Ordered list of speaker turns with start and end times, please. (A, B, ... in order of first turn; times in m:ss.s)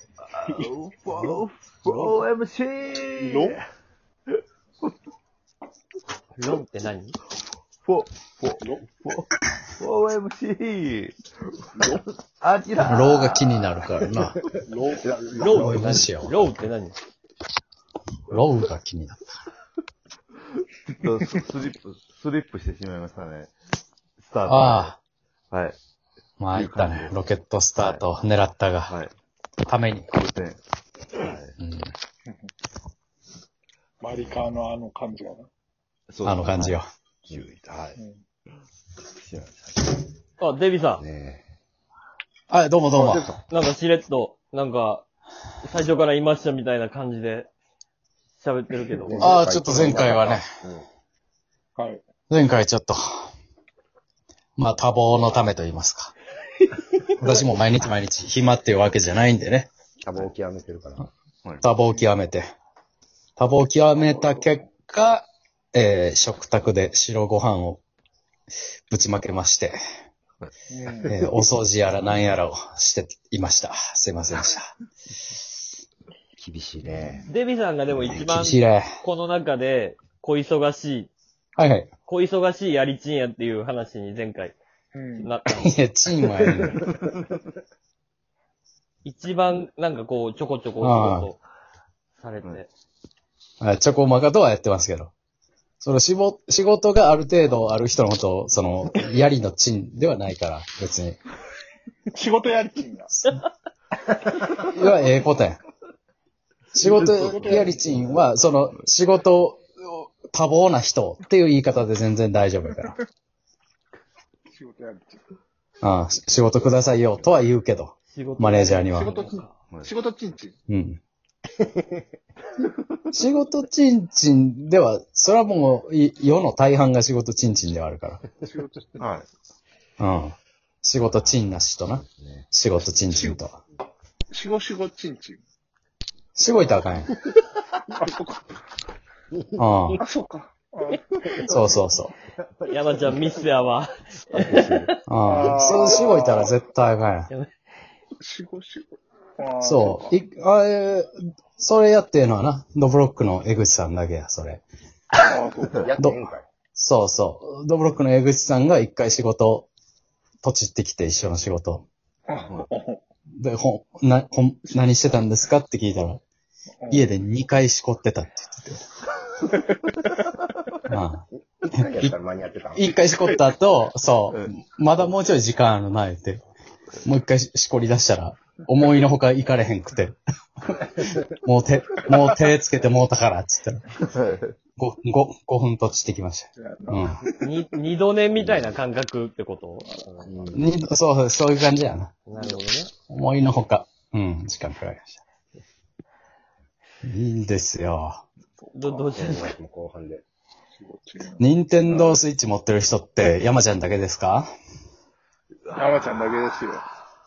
0:00.3-0:03.6 A
0:01.8-0:02.2 B
0:03.2-0:03.6 C
0:06.4-0:07.2 B
0:07.8-0:11.1 A
0:08.6-0:08.8 C
0:11.8-0:12.0 C
0:12.4-0:13.6 A
0:12.8-0:14.4 D
0:14.3-0:16.0 E
0:14.6-0:15.6 C
0:15.4-0:17.0 B
0:15.5-0:16.4 D
0:18.3-0:19.3 D
0:21.0-0:23.5 A
0:24.2-0:24.9 A
0:24.4-0:25.0 D
0:25.5-0:25.8 A
0:26.4-0:28.9 D
0:26.5-0:27.2 A
0:27.8-0:28.0 A
0:29.7-0:30.1 D
0:30.1-0:30.6 A
0:31.1-0:31.6 A
0:31.6-0:31.9 D
0:34.0-0:35.5 C
0:36.1-0:38.0 A
0:36.2-0:36.9 D
0:38.0-0:38.2 C
0:39.3-0:39.7 A
0:40.4-0:41.0 B
0:41.0-0:41.4 E
0:42.5-0:43.3 D
0:42.9-0:43.4 E
0:43.5-0:45.0 B
0:45.6-0:47.5 B
0:48.4-0:49.3 B
0:49.0-0:50.8 E
0:49.2-0:50.5 D
0:52.3-0:53.3 D
0:54.6-0:56.1 D
0:57.2-0:59.7 D
1:00.0-1:01.1 E
1:01.6-1:02.4 D
1:03.4-1:07.8 D
1:08.9-1:09.8 D
1:10.7-1:11.1 C
1:10.9-1:11.3 E
1:11.1-1:14.7 D
1:16.4-1:17.3 E
1:17.2-1:21.1 B
1:18.0-1:18.9 D
1:21.6-1:21.9 D
1:22.0-1:24.6 B
1:24.9-1:25.3 C
1:25.2-1:25.7 B
1:25.5-1:26.8 D
1:26.4-1:27.2 E
1:29.0-1:31.4 B
1:30.8-1:31.3 D
1:32.1-1:32.7 B
1:33.6-1:35.1 D
1:35.8-1:41.2 D
1:42.1-1:43.1 C
1:43.1-1:43.4 D
1:44.6-1:45.6 D
1:46.7-1:53.0 D
1:46.8-1:47.7 C
1:54.5-1:55.2 C
1:55.8-1:59.1 D
1:58.1-1:59.5 B
1:58.5-2:00.6 C
2:00.7-2:01.0 D
2:01.6-2:02.0 E
2:03.1-2:08.2 D
2:08.4-2:08.8 C
2:09.0-2:09.2 A
2:10.0-2:13.6 D
2:12.0-2:12.5 E
2:13.1-2:13.4 C
2:14.3-2:15.4 C
2:16.4-2:17.1 D
2:17.9-2:18.5 C
2:19.6-2:20.0 D
2:20.0-2:21.5 C
2:21.4-2:22.1 D
2:22.4-2:23.3 E
2:22.7-2:25.0 B
2:24.3-2:24.9 E
2:25.1-2:27.3 D
2:25.2-2:26.5 C
2:28.2-2:30.2 C
2:29.6-2:34.6 D
2:35.2-2:35.9 C
2:35.7-2:36.4 E
2:36.7-2:39.7 D
2:40.4-2:41.8 D
2:42.3-2:43.0 C
2:43.4-2:46.2 D
2:46.8-2:47.1 C
2:46.9-2:48.8 D
2:49.5-2:50.4 C
2:50.9-2:52.1 D
2:51.8-2:52.9 E
2:52.7-2:56.4 D
2:57.0-3:03.8 D
3:04.0-3:04.5 A
3:04.8-3:07.2 D
3:06.6-3:07.1 C
3:07.4-3:09.9 B
3:09.8-3:10.4 C
3:10.1-3:10.6 E
3:10.5-3:12.2 D
3:12.2-3:12.9 B
3:13.1-3:15.2 D
3:17.0-3:18.2 D
3:18.6-3:19.1 C
3:18.7-3:19.6 B
3:19.2-3:20.2 E
3:20.8-3:22.2 C
3:21.4-3:24.5 D
3:25.6-3:26.4 A
3:25.7-3:26.8 C